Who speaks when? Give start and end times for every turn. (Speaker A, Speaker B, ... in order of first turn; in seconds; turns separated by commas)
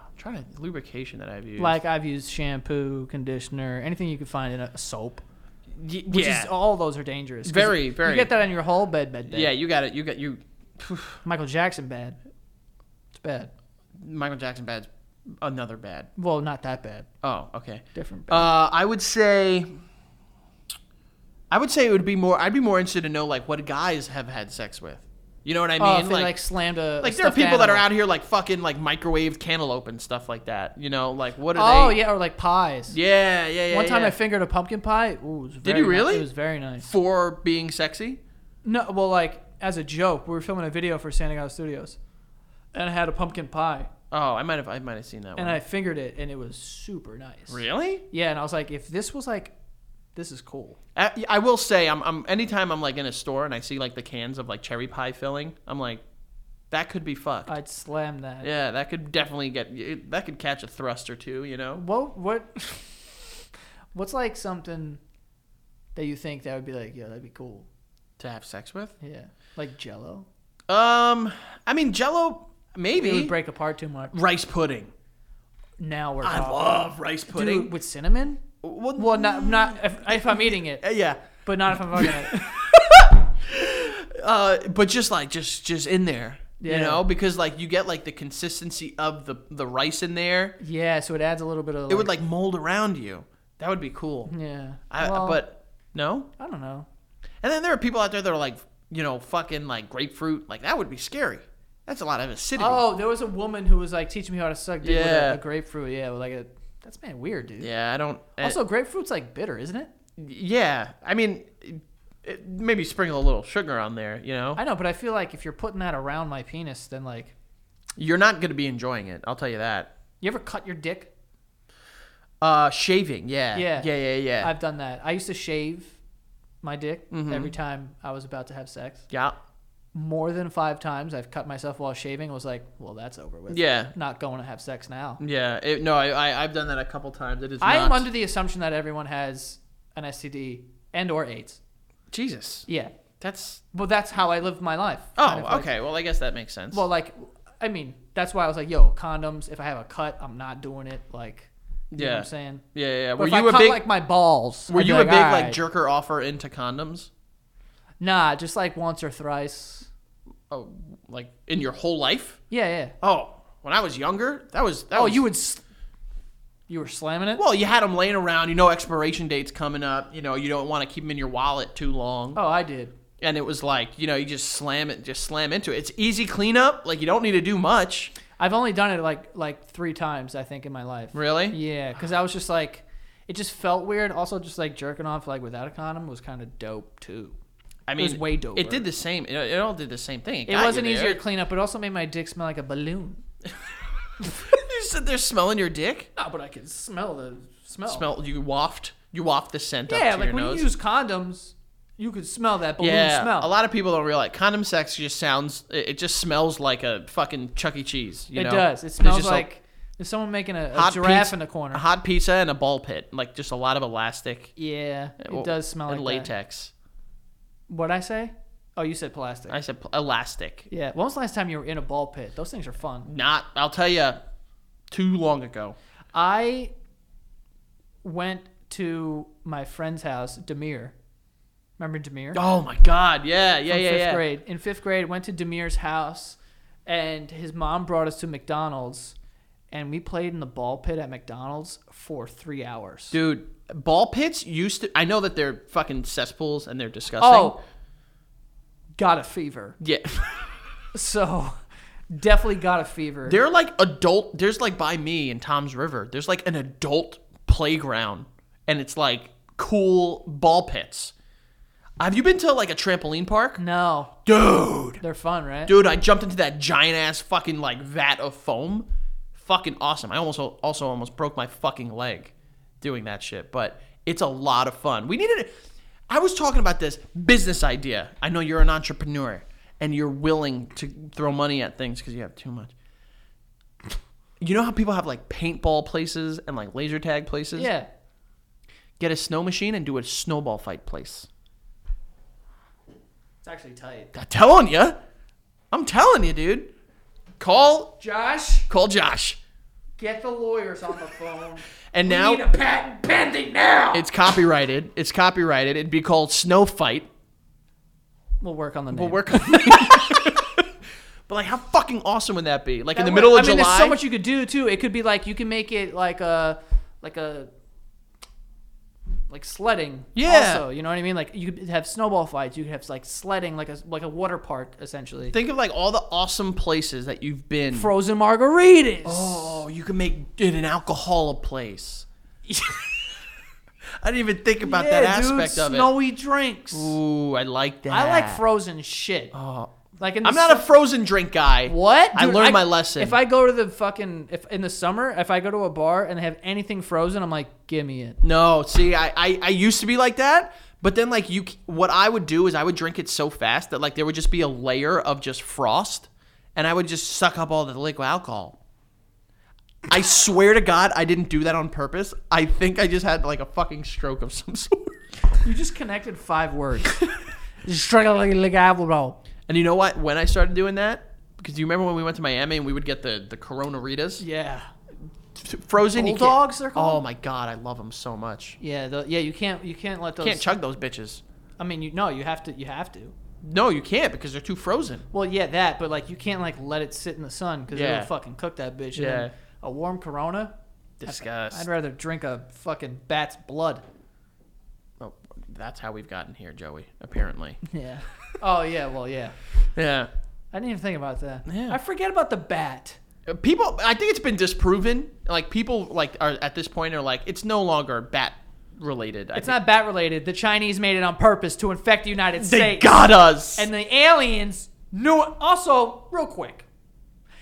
Speaker A: 0.1-1.8, Speaker B: 1.6-5.2, Speaker A: 5.7-6.5, Speaker B: 6.1-9.5, Speaker A: 7.5-8.3, Speaker A: 9.3-11.2, Speaker B: 11.2-12.2, Speaker B: 13.1-13.5, Speaker A: 14.0-14.9, Speaker A: 15.4-16.1, Speaker B: 16.2-17.1, Speaker A: 17.2-19.7, Speaker B: 17.9-18.5, Speaker A: 21.5-26.4, Speaker B: 25.8-27.9, Speaker A: 27.0-32.0, Speaker B: 31.5-33.0, Speaker A: 32.9-34.1, Speaker B: 33.7-36.9, Speaker A: 35.6-36.3, Speaker A: 36.8-38.2, Speaker B: 38.6-42.0, Speaker B: 42.7-43.9, Speaker A: 44.1-45.6, Speaker B: 45.4-49.5, Speaker A: 47.5-48.0, Speaker B: 50.1-50.8, Speaker A: 51.0-56.0, Speaker A: 56.7-57.5, Speaker B: 57.5-58.5, Speaker A: 58.4-61.8, Speaker B: 61.7-63.0, Speaker B: 63.9-65.0, Speaker B: 66.0-67.7, Speaker A: 68.2-69.0, Speaker B: 69.0-70.3, Speaker A: 70.7-73.3, Speaker B: 73.0-74.2, Speaker A: 74.1-74.9, Speaker B: 75.8-78.4, Speaker A: 76.2-77.7, Speaker A: 78.6-90.5, Speaker B: 79.0-80.8, Speaker B: 81.4-82.7, Speaker B: 86.6-87.0, Speaker B: 90.6-92.1, Speaker A: 91.9-94.3, Speaker B: 94.3-95.4, Speaker A: 94.9-96.3, Speaker B: 96.4-96.9, Speaker A: 97.4-102.8, Speaker B: 102.6-107.7, Speaker A: 104.8-105.4, Speaker A: 107.6-108.6, Speaker B: 108.4-109.9, Speaker A: 110.2-114.6, Speaker B: 114.5-117.3, Speaker A: 118.0-119.9, Speaker B: 120.2-121.1, Speaker A: 122.4-124.5, Speaker B: 123.5-126.0, Speaker B: 126.6-129.1, Speaker A: 127.1-127.5, Speaker A: 129.1-129.4, Speaker B: 129.9-135.2, Speaker A: 133.5-133.9, Speaker A: 135.2-138.1, Speaker B: 137.6-141.6, Speaker A: 142.1-142.7, Speaker B: 142.7-142.9, Speaker A: 143.2-143.6, Speaker B: 143.7-145.7, Speaker A: 145.2-146.9, Speaker B: 146.7-152.6, Speaker A: 151.9-153.8, Speaker B: 153.2-155.6, Speaker A: 154.7-157.1, Speaker B: 158.0-159.9, Speaker A: 160.5-162.4, Speaker B: 162.5-162.9, Speaker A: 163.0-165.2, Speaker B: 164.9-165.6, Speaker B: 166.7-167.4, Speaker A: 167.4-172.4, Speaker B: 172.3-172.9, Speaker A: 173.2-178.1, Speaker B: 178.4-187.4, Speaker A: 181.1-181.6, Speaker A: 187.9-191.2, Speaker B: 187.9-188.9, Speaker B: 190.5-193.2, Speaker A: 194.2-196.1, Speaker B: 196.2-198.1, Speaker A: 197.9-200.7, Speaker B: 199.9-203.5, Speaker A: 202.8-209.4, Speaker B: 208.3-211.8, Speaker A: 210.7-214.5, Speaker B: 214.6-216.3, Speaker A: 215.2-216.7, Speaker B: 217.7-219.6, Speaker A: 219.5-220.7, Speaker B: 220.7-223.1, Speaker A: 223.1-224.2, Speaker A: 224.9-225.8, Speaker B: 226.1-226.7, Speaker B: 228.0-230.9, Speaker B: 231.8-232.4, Speaker A: 232.3-234.2, Speaker B: 233.7-239.1, Speaker B: 239.7-243.2, Speaker A: 243.1-247.6, Speaker B: 247.2-247.6, Speaker B: 249.0-249.8, Speaker A: 249.8-250.6, Speaker B: 250.9-251.6, Speaker B: 252.1-253.4, Speaker A: 253.3-261.1, Speaker A: 262.0-263.6, Speaker B: 263.6-264.2, Speaker A: 264.3-265.0, Speaker B: 265.0-265.7, Speaker A: 265.7-275.5, Speaker A: 276.1-282.7, Speaker A: 284.4-287.7, Speaker B: 287.6-287.9, Speaker A: 289.0-291.3, Speaker B: 293.4-294.1, Speaker A: 294.1-295.0, Speaker A: 295.7-296.7, Speaker A: 297.4-298.0, Speaker B: 298.0-298.7, Speaker A: 298.7-299.4, Speaker B: 300.0-304.1, Speaker A: 301.9-302.4, Speaker A: 303.9-307.1, Speaker B: 308.4-310.3, Speaker A: 308.9-310.7, Speaker A: 311.3-314.0, Speaker B: 312.9-317.5, Speaker B: 319.3-325.4, Speaker A: 320.1-320.6, Speaker A: 325.3-327.9, Speaker B: 327.7-329.6, Speaker A: 329.1-332.1, Speaker B: 332.5-333.1, Speaker A: 334.0-335.9, Speaker B: 334.6-337.0, Speaker A: 336.7-338.4, Speaker B: 337.9-339.3, Speaker A: 339.3-343.2, Speaker B: 340.0-340.7, Speaker B: 341.7-348.2, Speaker A: 348.2-358.6, Speaker A: 359.9-365.1, Speaker B: 365.4-369.2, Speaker A: 369.5-374.2, Speaker B: 374.2-374.7, Speaker A: 375.3-378.6, Speaker B: 375.8-377.0, Speaker B: 378.6-380.6, Speaker A: 380.2-381.2, Speaker B: 381.6-383.1, Speaker A: 383.4-385.1, Speaker B: 385.1-390.5, Speaker A: 387.7-388.1, Speaker A: 388.9-389.3, Speaker A: 391.0-391.7, Speaker B: 391.1-393.8, Speaker A: 395.0-397.6, Speaker B: 397.6-399.4, Speaker A: 399.7-400.1, Speaker B: 400.5-403.0, Speaker A: 401.5-401.8, Speaker A: 403.3-409.6, Speaker B: 409.4-416.6, Speaker A: 412.4-413.7